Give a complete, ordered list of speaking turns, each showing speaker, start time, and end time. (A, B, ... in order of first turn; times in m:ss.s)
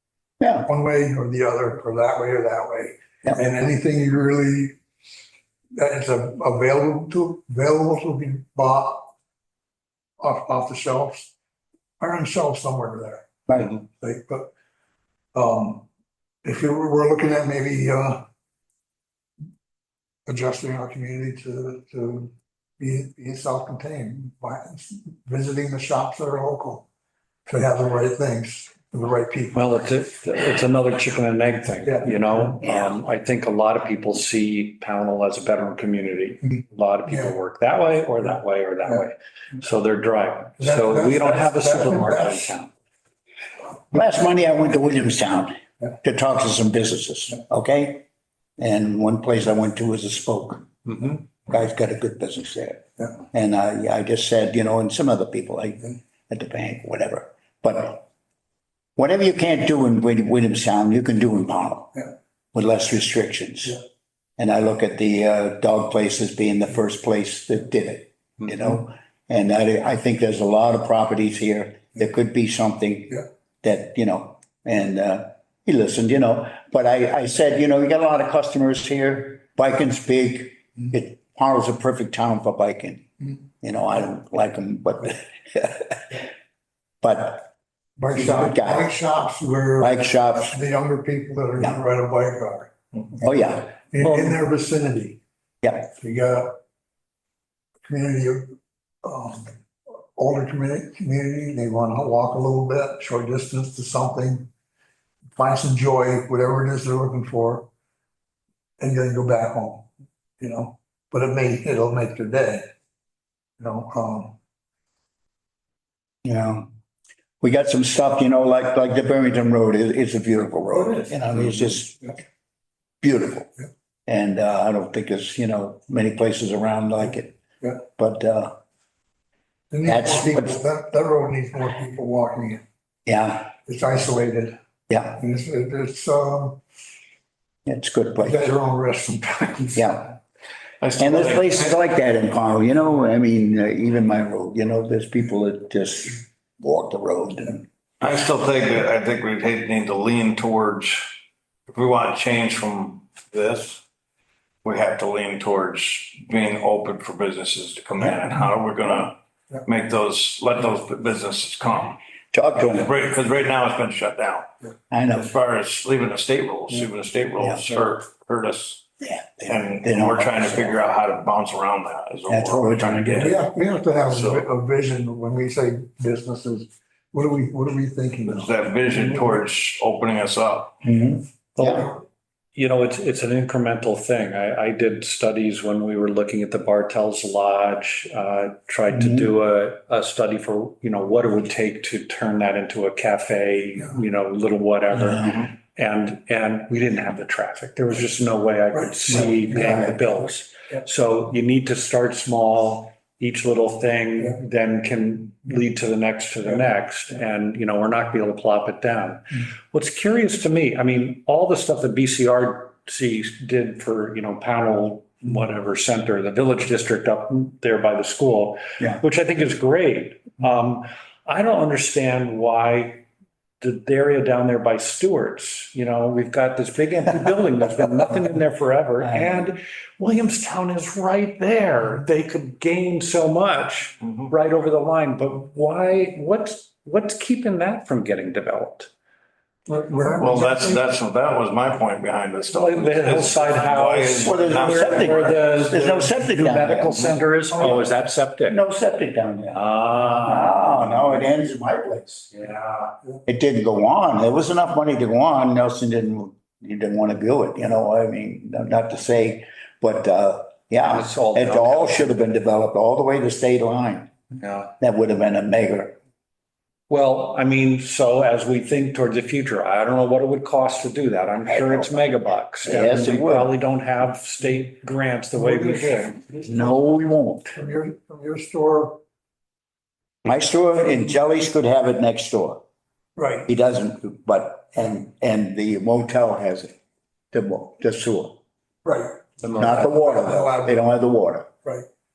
0:00.4-0:00.7 A
0:00.6-0:04.8 B
0:05.8-0:09.1 B
0:10.2-0:11.3 B
0:12.0-0:14.5 B
0:13.5-0:13.7 A
0:15.3-0:15.9 B
0:16.4-0:18.2 B
0:20.3-0:26.8 B
0:27.5-0:29.6 B
0:29.5-0:42.7 C
0:37.1-0:37.3 B
0:40.6-0:42.6 B
0:43.9-0:48.0 A
0:48.6-0:58.0 A
0:59.0-1:03.8 A
1:04.4-1:23.1 A
1:23.6-1:26.2 A
1:27.0-1:27.5 A
1:28.0-1:32.7 B
1:28.1-1:28.9 A
1:29.8-1:30.6 A
1:33.2-1:33.8 A
1:33.9-1:35.2 B
1:35.6-1:35.9 A
1:35.9-1:36.6 B
1:37.8-1:39.5 B
1:40.1-1:44.5 B
1:45.4-1:47.7 B
1:48.8-1:49.9 B
1:50.4-1:52.7 B
1:53.6-1:54.4 B
1:56.2-1:56.7 A
1:57.4-2:02.1 A
2:03.0-2:03.5 A
2:04.1-2:08.5 A
2:09.7-2:12.6 B
2:09.8-2:10.6 A
2:13.1-2:13.5 A
2:13.7-2:14.6 B
2:14.9-2:15.2 A
2:15.2-2:16.6 B
2:17.7-2:18.5 A
2:18.2-2:19.9 B
2:19.8-2:20.2 A
2:20.8-2:21.7 D
2:21.0-2:27.7 A
2:28.0-2:31.0 D
2:31.7-2:33.8 D
2:34.6-2:42.0 D
2:42.3-2:42.9 A
2:42.7-2:44.5 D
2:44.9-2:45.3 A
2:45.2-2:48.8 D
2:49.0-2:50.8 A
2:49.5-2:53.4 D
2:52.3-2:53.4 A
2:53.2-2:58.5 B
2:54.1-2:54.5 D
2:58.2-3:00.8 D
3:00.8-3:01.9 A
3:01.6-3:02.0 C
3:02.6-3:43.0 C
3:08.9-3:09.3 A
3:15.1-3:15.3 A
3:43.6-3:58.9 C
3:49.0-3:49.5 A
3:59.7-4:00.8 B
4:00.2-4:05.5 D
4:02.4-4:08.6 C
4:04.2-4:07.8 A
4:08.5-4:12.2 A
4:09.5-4:11.3 C
4:12.3-4:13.0 C
4:13.3-4:24.1 A
4:20.9-4:22.1 C
4:24.4-4:24.7 C
4:24.8-4:26.0 A
4:26.9-4:36.4 C
4:31.5-4:32.1 A
4:32.6-4:33.5 A
4:35.7-4:36.1 B
4:36.4-4:37.5 A
4:37.6-4:39.0 B
4:40.2-4:42.6 A
4:43.2-4:43.5 B
4:43.5-4:46.8 A
4:47.3-4:48.4 A
4:48.8-4:50.8 B
4:49.4-4:49.8 C
4:49.6-4:51.5 A